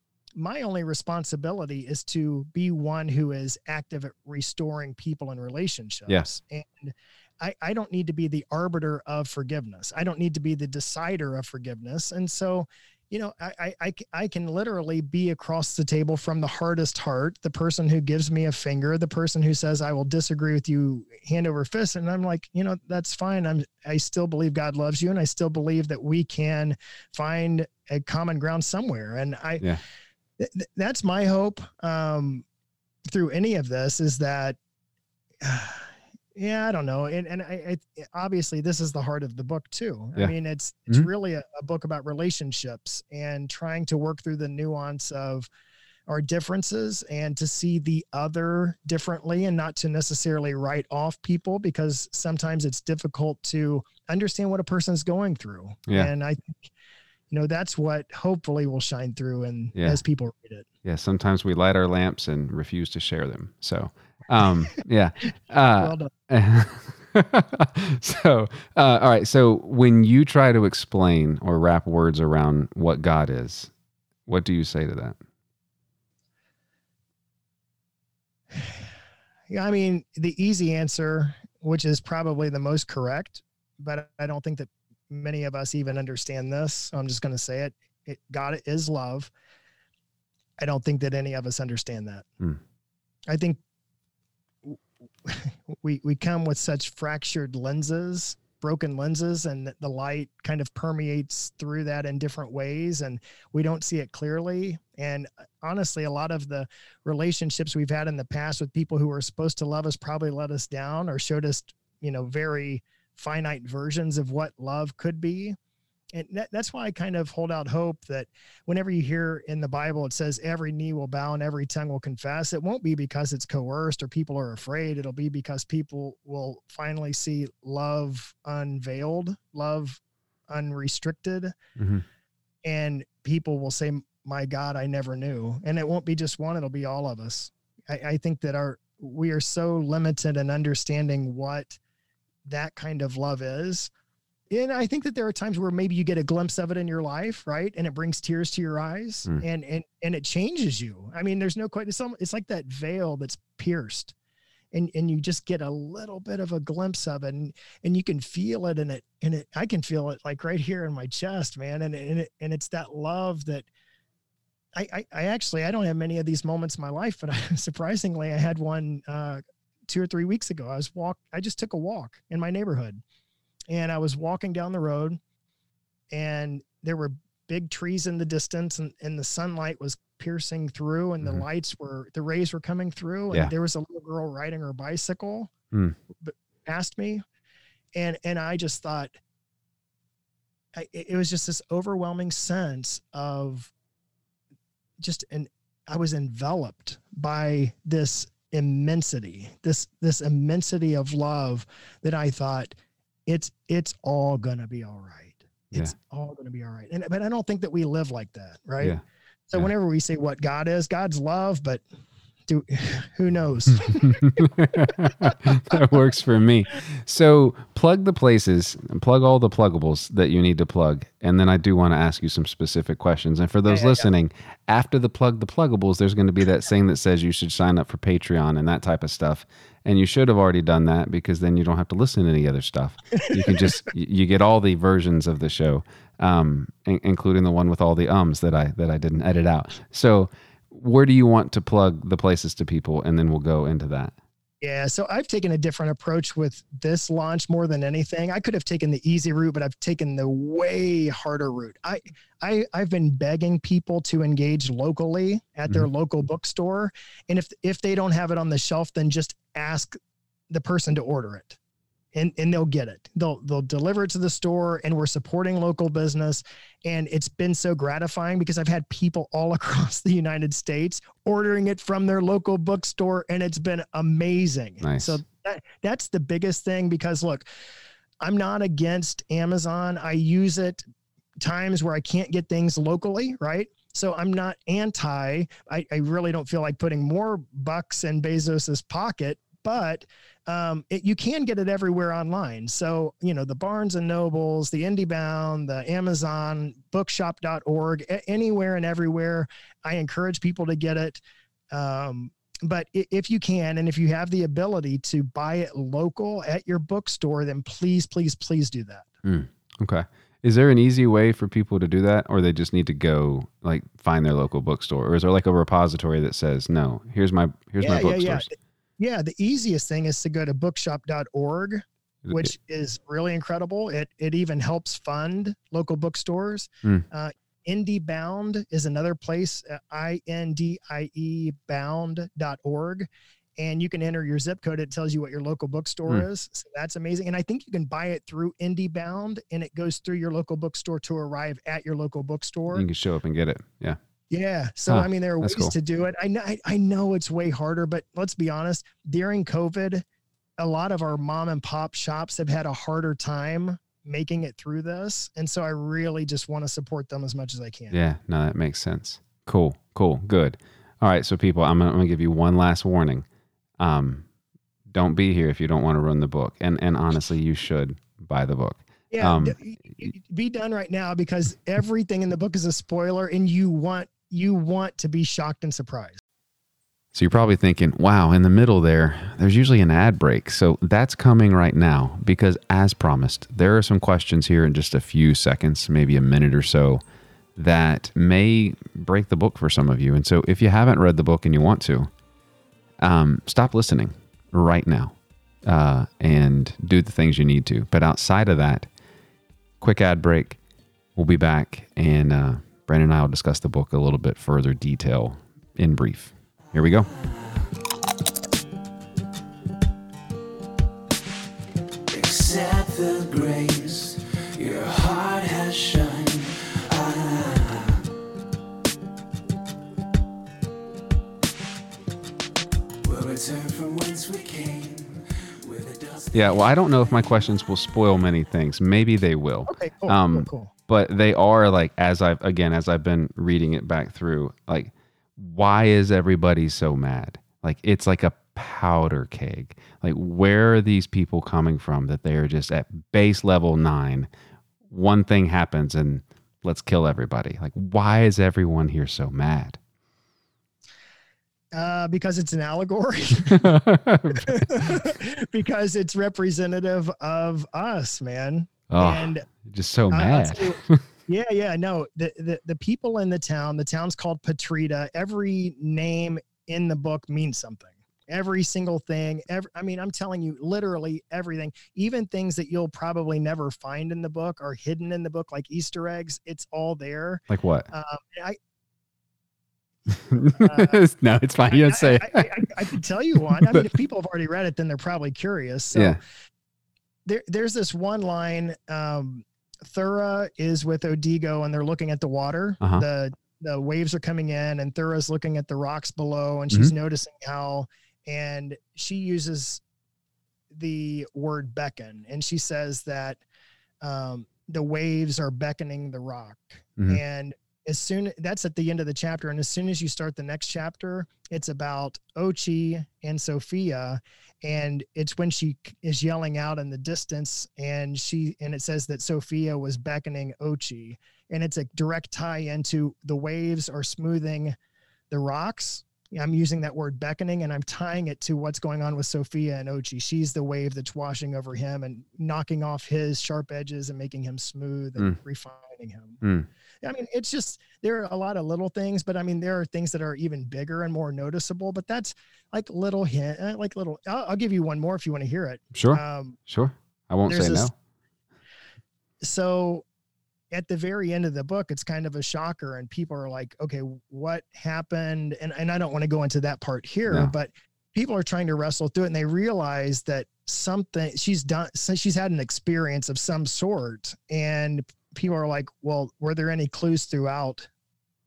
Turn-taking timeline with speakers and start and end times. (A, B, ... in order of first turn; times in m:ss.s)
0:00.4-0:29.7 A
0:30.4-0:32.4 A
0:33.1-0:34.6 A
0:35.4-0:45.5 A
0:46.1-0:56.7 A
0:57.3-1:00.7 A
0:59.8-1:00.0 B
1:00.8-1:13.7 B
1:05.8-1:06.1 A
1:14.3-1:15.2 B
1:18.5-1:18.8 A
1:19.5-1:29.3 A
1:30.6-1:32.3 A
1:33.3-1:33.6 A
1:34.7-1:55.6 A
1:56.1-2:11.6 A
2:11.8-2:12.0 B
2:12.6-2:21.8 A
2:22.4-2:23.9 A
2:24.5-2:34.1 A
2:34.7-2:43.7 A
2:44.8-2:53.0 A
2:53.7-2:55.2 A
2:56.1-3:05.5 A
3:06.2-3:07.2 A
3:08.0-3:09.2 A
3:10.8-3:13.7 A
3:15.0-3:29.0 A
3:29.5-3:31.8 A
3:32.5-3:35.8 A
3:33.8-4:04.1 B
3:43.7-3:44.1 A
3:53.2-3:53.8 A
4:04.6-4:20.0 A
4:20.5-4:21.6 A
4:22.1-4:37.5 A
4:34.8-4:35.2 B
4:38.2-4:40.8 A
4:41.4-5:01.2 A
5:01.7-5:09.1 A
5:09.2-5:18.5 B
5:17.8-5:33.1 A
5:22.3-5:22.5 B
5:33.6-5:42.9 A
5:42.7-5:44.0 B
5:44.3-5:50.0 A
5:44.9-5:45.7 B
5:50.6-5:58.0 A
5:57.9-6:03.3 B
6:03.8-6:04.2 B
6:04.9-6:09.6 B
6:09.1-6:16.2 A
6:17.1-6:27.0 B
6:27.6-6:32.1 B
6:33.0-6:38.9 B
6:39.8-6:40.6 B
6:41.2-6:47.1 B
6:52.1-6:58.0 C
7:03.0-7:06.6 C
7:06.3-7:24.3 B
7:09.7-7:10.7 A
7:24.9-7:29.8 B
7:31.7-7:33.7 A
7:33.5-7:35.0 B
7:34.4-7:39.5 A
7:38.9-7:41.0 B
7:40.1-7:58.6 A
7:57.5-7:57.9 B
8:00.1-8:02.5 B
8:00.4-8:01.0 A
8:01.7-8:06.2 A
8:03.5-8:03.9 B
8:05.9-8:06.2 B
8:07.3-8:19.8 A
8:20.7-8:23.4 A
8:24.0-8:44.8 A
8:45.3-8:56.4 A
8:57.0-9:06.6 A
9:05.9-9:07.9 B
9:07.5-9:07.9 A
9:09.4-9:10.0 A
9:10.7-9:27.9 A
9:17.3-9:17.5 B